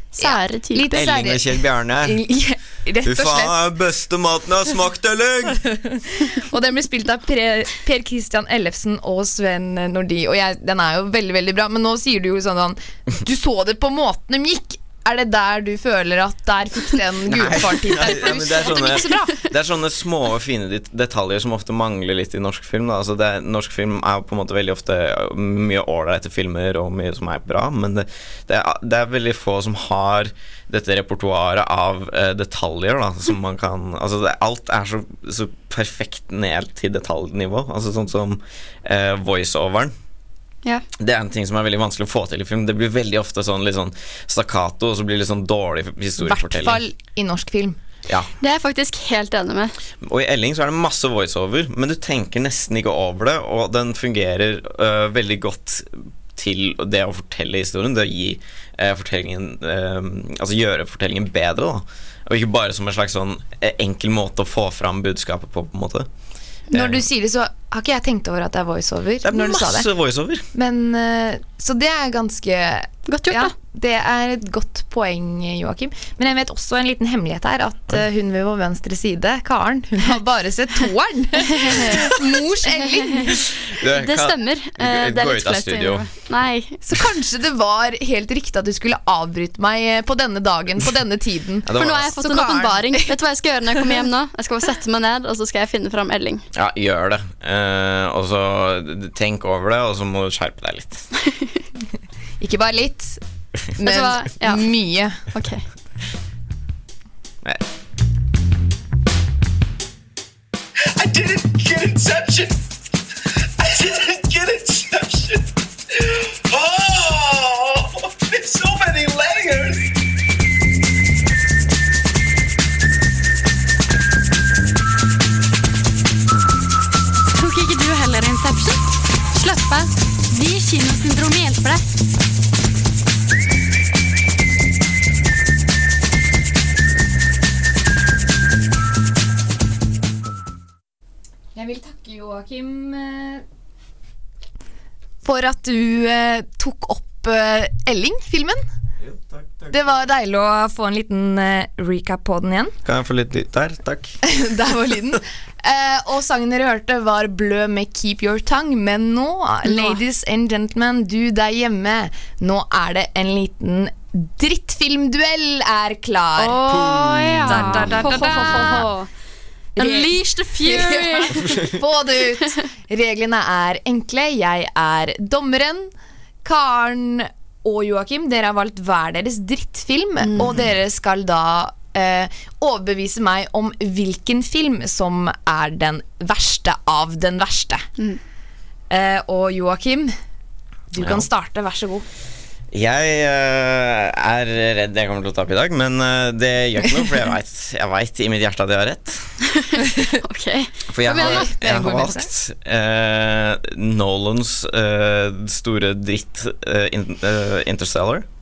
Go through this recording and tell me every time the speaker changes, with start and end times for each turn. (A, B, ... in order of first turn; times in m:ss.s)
0:00.2-0:01.1 A
0:00.2-0:03.5 B
0:00.9-0:02.2 C
0:03.0-0:05.6 C
0:05.7-0:19.4 B
0:17.2-0:39.9 C
0:41.0-0:46.8 C
0:46.2-0:47.8 B
0:48.4-0:49.8 A
0:50.0-1:06.1 C
1:06.7-1:07.1 C
1:06.7-1:09.9 B
1:09.2-1:10.4 C
1:10.5-1:23.4 B
1:13.1-1:13.5 A
1:21.6-1:22.0 A
1:22.6-1:23.4 A
1:23.7-1:26.1 C
1:23.9-1:26.8 A
1:26.8-1:33.0 B
1:31.6-1:32.1 C
1:31.7-1:36.4 A
1:36.5-1:41.0 C
1:41.2-1:41.6 A
1:42.4-1:43.2 B
1:43.8-1:44.7 A
1:43.8-1:45.2 B
1:45.3-1:45.6 A
1:51.0-1:52.6 D
1:53.6-1:55.4 D
1:56.5-1:59.8 D
2:07.4-2:08.8 E
2:09.4-2:11.8 E
2:21.5-2:23.4 B
2:25.2-2:28.6 B
2:29.0-2:30.0 C
2:29.7-2:32.7 B
2:32.8-2:34.2 C
2:34.3-2:48.9 B
2:39.6-2:40.0 A
2:46.4-2:49.1 A
2:46.7-2:48.2 C
2:49.8-2:55.9 B
2:49.8-2:51.6 A
2:56.4-3:07.9 B
3:00.2-3:00.5 A
3:00.4-3:00.8 C
3:08.9-3:10.1 B
3:10.9-3:12.0 B
3:10.9-3:11.3 C
3:12.7-3:19.2 C
3:19.6-3:21.5 A
3:20.9-3:28.2 C
3:21.1-3:22.3 B